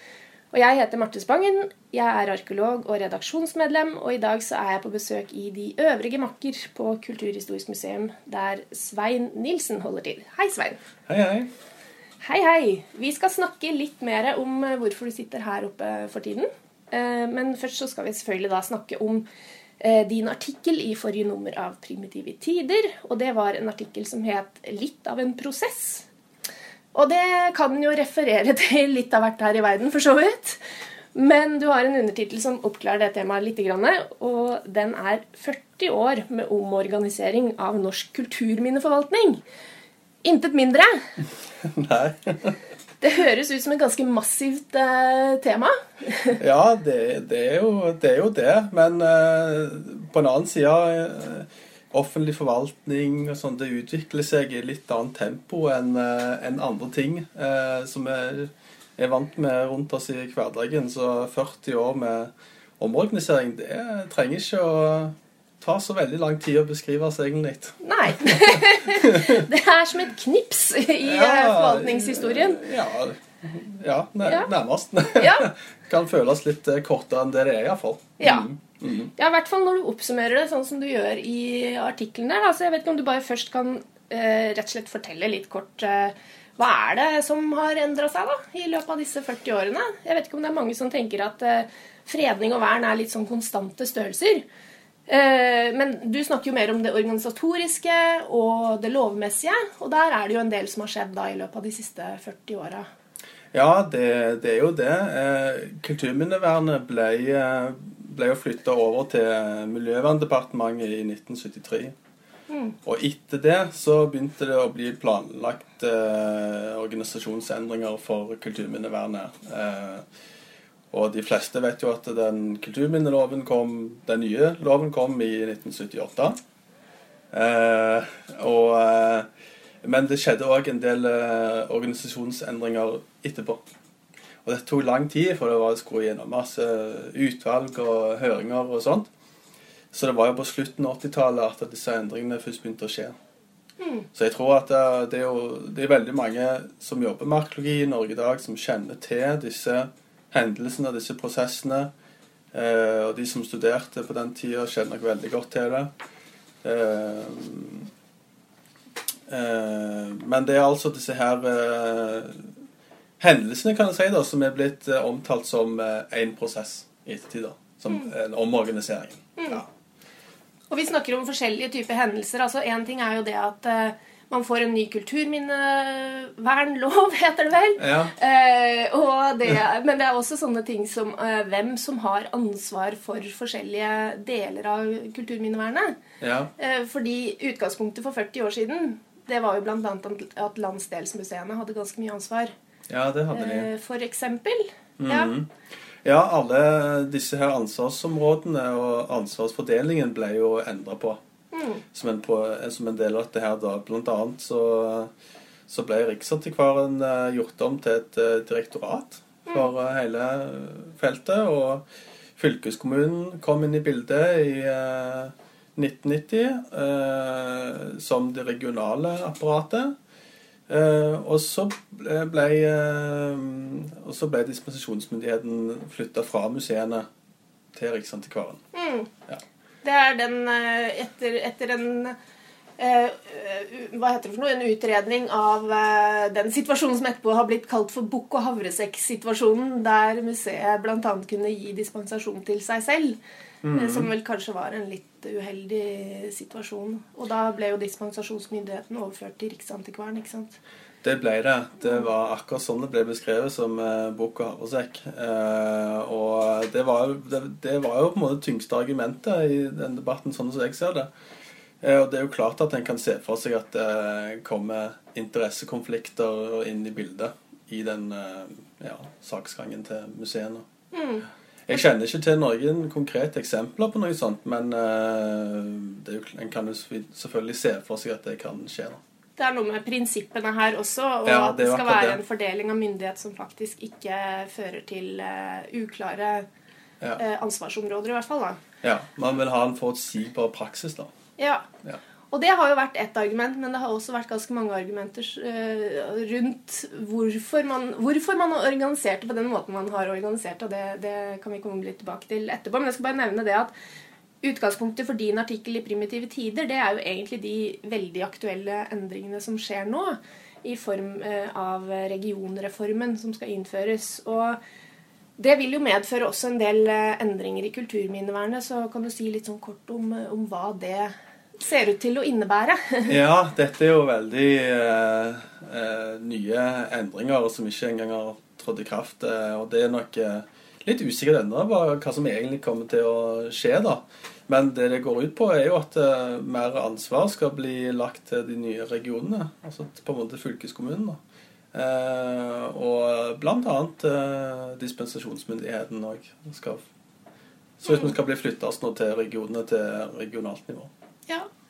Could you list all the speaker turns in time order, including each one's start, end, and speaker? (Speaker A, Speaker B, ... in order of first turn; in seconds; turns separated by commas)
Speaker A: 0.5-10.8, Speaker B: 11.1-11.5, Speaker A: 12.2-19.2, Speaker A: 19.8-26.1, Speaker A: 26.9-30.6, Speaker A: 31.1-39.4, Speaker A: 40.2-41.0, Speaker B: 41.6-42.6, Speaker A: 43.0-46.4, Speaker B: 46.4-69.5, Speaker A: 67.8-72.7, Speaker B: 71.0-79.1, Speaker A: 74.2-74.5, Speaker A: 75.2-75.5, Speaker A: 78.2-78.5, Speaker A: 79.2-94.4, Speaker A: 95.1-102.9, Speaker B: 103.5-112.0, Speaker A: 112.5-112.8, Speaker B: 112.9-120.0, Speaker B: 120.9-126.4, Speaker B: 127.3-129.3, Speaker B: 129.8-133.6, Speaker B: 134.4-139.1, Speaker B: 139.9-143.2, Speaker A: 143.8-144.1, Speaker B: 144.2-151.9, Speaker B: 152.5-155.9, Speaker B: 156.6-157.9, Speaker B: 159.3-162.5, Speaker B: 163.2-169.7, Speaker A: 170.7-186.0, Speaker B: 177.8-178.1, Speaker B: 186.2-186.5, Speaker A: 186.6-192.5, Speaker B: 192.9-193.7, Speaker A: 193.3-195.3, Speaker B: 195.0-195.5, Speaker B: 196.0-201.2, Speaker A: 201.5-201.8, Speaker B: 201.9-205.1, Speaker B: 205.7-211.9, Speaker B: 212.4-219.9, Speaker B: 220.7-227.1, Speaker B: 227.7-228.6, Speaker A: 228.7-229.1, Speaker A: 229.8-232.2, Speaker A: 232.8-243.2, Speaker B: 243.6-244.1, Speaker A: 243.7-250.6, Speaker B: 251.0-261.1, Speaker B: 261.8-270.6, Speaker A: 270.9-271.3, Speaker B: 271.7-279.0, Speaker A: 279.4-286.5, Speaker B: 281.3-282.2, Speaker A: 287.2-288.6, Speaker B: 288.8-291.1, Speaker A: 291.4-291.7, Speaker A: 292.3-303.7, Speaker A: 304.4-314.6, Speaker A: 315.4-323.2, Speaker B: 323.1-341.2, Speaker B: 341.7-346.8, Speaker B: 347.8-350.9, Speaker A: 347.9-348.1